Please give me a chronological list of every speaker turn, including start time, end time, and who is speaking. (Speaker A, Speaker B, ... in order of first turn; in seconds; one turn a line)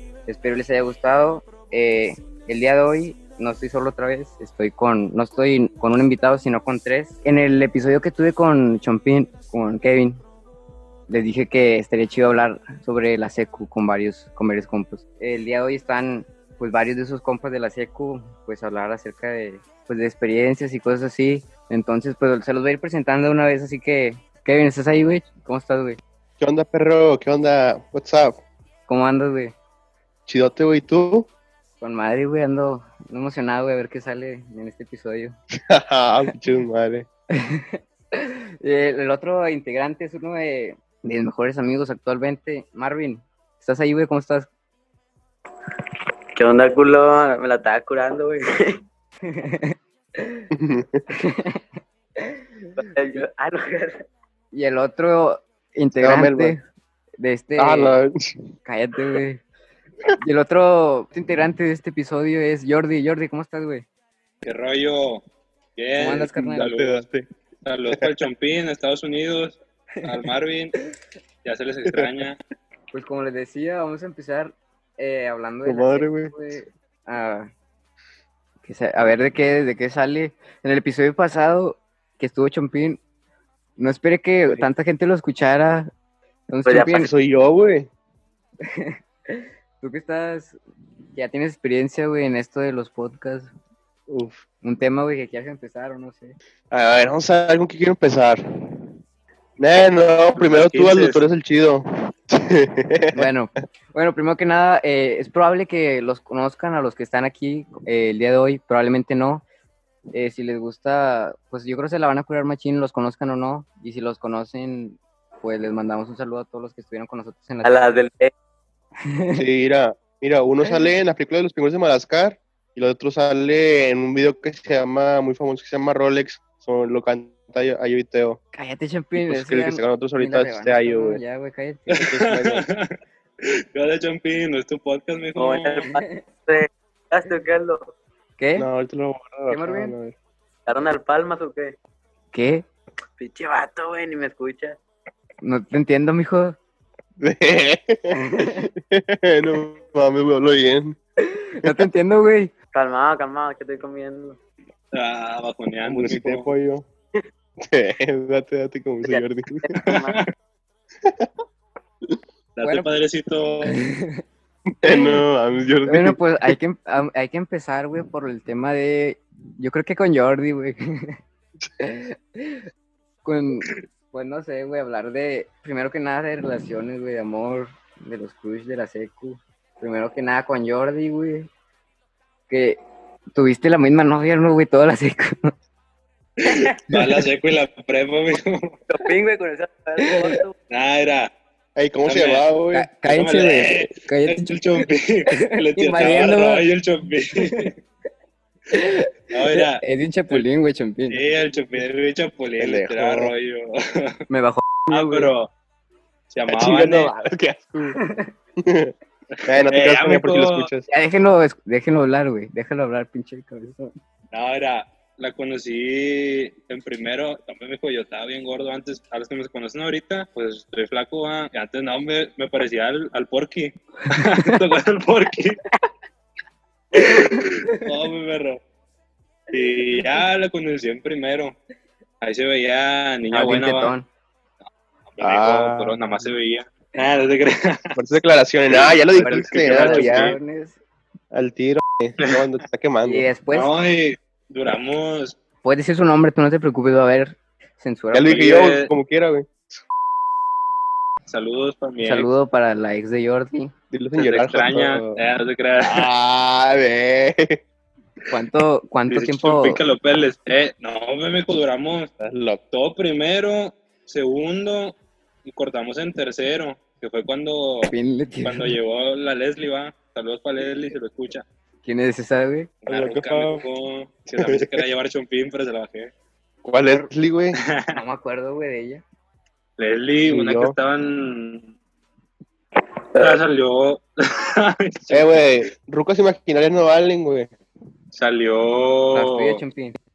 Speaker A: 0.3-10.2
Speaker A: 11.1-26.0
Speaker B: 26.4-28.4
Speaker A: 28.9-29.5
Speaker B: 30.3-31.3
Speaker A: 31.8-35.4
Speaker B: 35.6-37.1
Speaker A: 37.3-44.5
Speaker C: 46.4-48.8
Speaker A: 49.2-50.5
Speaker B: 50.5-51.0
Speaker A: 51.1-51.6
Speaker A: 52.2-52.8
Speaker C: 52.8-54.0
Speaker A: 54.5-56.6
Speaker B: 56.0-56.5
Speaker A: 57.2-58.0
Speaker B: 57.6-58.5
Speaker A: 58.6-59.4
Speaker A: 60.2-63.8
Speaker D: 64.4-65.2
Speaker D: 65.8-67.0
Speaker A: 66.0-66.7
Speaker B: 66.3-67.2
Speaker D: 67.6-70.7
Speaker D: 71.4-72.4
Speaker A: 72.9-77.5
Speaker B: 75.6-76.3
Speaker A: 78.6-83.0
Speaker A: 83.8-85.9
Speaker A: 86.5-87.1
Speaker C: 86.7-87.1
Speaker B: 86.9-87.9
Speaker A: 88.7-90.6
Speaker A: 91.1-93.5
Speaker B: 94.1-94.4
Speaker A: 94.6-96.3
Speaker B: 96.7-98.4
Speaker B: 99.6-103.3
Speaker D: 100.4-101.2
Speaker A: 103.1-109.4
Speaker A: 110.1-117.8
Speaker C: 117.6-118.3
Speaker A: 119.1-119.4
Speaker B: 119.3-128.4
Speaker A: 128.5-132.0
Speaker B: 129.1-131.2
Speaker D: 131.9-132.9
Speaker B: 132.0-132.7
Speaker D: 133.4-135.8
Speaker C: 135.4-137.9
Speaker A: 135.9-136.2
Speaker A: 138.4-138.7
Speaker B: 138.6-140.1
Speaker A: 139.5-139.9
Speaker C: 140.7-141.7
Speaker A: 142.3-142.6
Speaker C: 143.2-144.8
Speaker A: 145.4-146.6
Speaker B: 147.2-151.0
Speaker A: 148.1-148.7
Speaker A: 151.2-152.5
Speaker C: 152.7-154.4
Speaker D: 154.9-156.5
Speaker B: 155.8-156.9
Speaker B: 157.6-159.7
Speaker C: 159.0-160.2
Speaker D: 159.8-160.3
Speaker D: 162.6-163.8
Speaker A: 163.6-164.2
Speaker B: 164.8-166.6
Speaker A: 164.9-165.2
Speaker A: 165.9-171.2
Speaker A: 171.8-172.6
Speaker A: 173.2-181.5
Speaker A: 182.5-182.8
Speaker A: 183.3-185.5
Speaker D: 186.4-188.8
Speaker C: 188.9-190.5
Speaker A: 190.0-190.4
Speaker D: 190.7-191.3
Speaker B: 191.8-192.9
Speaker D: 192.1-192.4
Speaker A: 192.7-196.6
Speaker D: 193.1-197.7
Speaker A: 197.4-197.7
Speaker A: 198.7-201.2
Speaker D: 199.3-200.4
Speaker D: 201.1-204.2
Speaker B: 202.6-203.3
Speaker A: 204.3-205.3
Speaker D: 204.9-205.5
Speaker D: 206.3-207.1
Speaker B: 206.5-208.0
Speaker A: 208.0-208.3
Speaker B: 208.6-208.9
Speaker D: 209.4-210.7
Speaker B: 209.4-210.9
Speaker A: 210.9-213.9
Speaker D: 214.3-225.6
Speaker A: 224.1-224.6
Speaker D: 226.9-228.6
Speaker A: 227.0-227.5
Speaker D: 229.5-231.6
Speaker D: 232.2-233.9
Speaker A: 233.3-234.1
Speaker D: 235.1-237.9
Speaker B: 235.2-236.3
Speaker B: 237.9-240.4
Speaker D: 238.7-240.4
Speaker A: 239.2-240.8
Speaker B: 241.3-243.3
Speaker A: 243.1-243.7
Speaker D: 243.5-245.3
Speaker A: 245.6-248.4
Speaker B: 248.1-249.8
Speaker D: 248.2-248.9
Speaker D: 251.3-252.3
Speaker A: 252.0-253.7
Speaker B: 253.9-255.2
Speaker D: 254.2-256.1
Speaker B: 255.8-257.6
Speaker A: 258.3-259.8
Speaker D: 259.1-262.1
Speaker B: 262.2-262.6
Speaker D: 262.7-267.9
Speaker A: 267.9-268.8
Speaker D: 268.4-271.4
Speaker A: 271.8-272.7
Speaker D: 272.8-276.1
Speaker B: 272.9-273.6
Speaker B: 274.4-274.8
Speaker B: 276.6-277.6
Speaker A: 277.9-279.0
Speaker D: 279.8-281.7
Speaker B: 280.3-280.7
Speaker D: 283.1-285.4
Speaker B: 285.1-287.5
Speaker D: 288.1-289.6
Speaker A: 289.1-290.0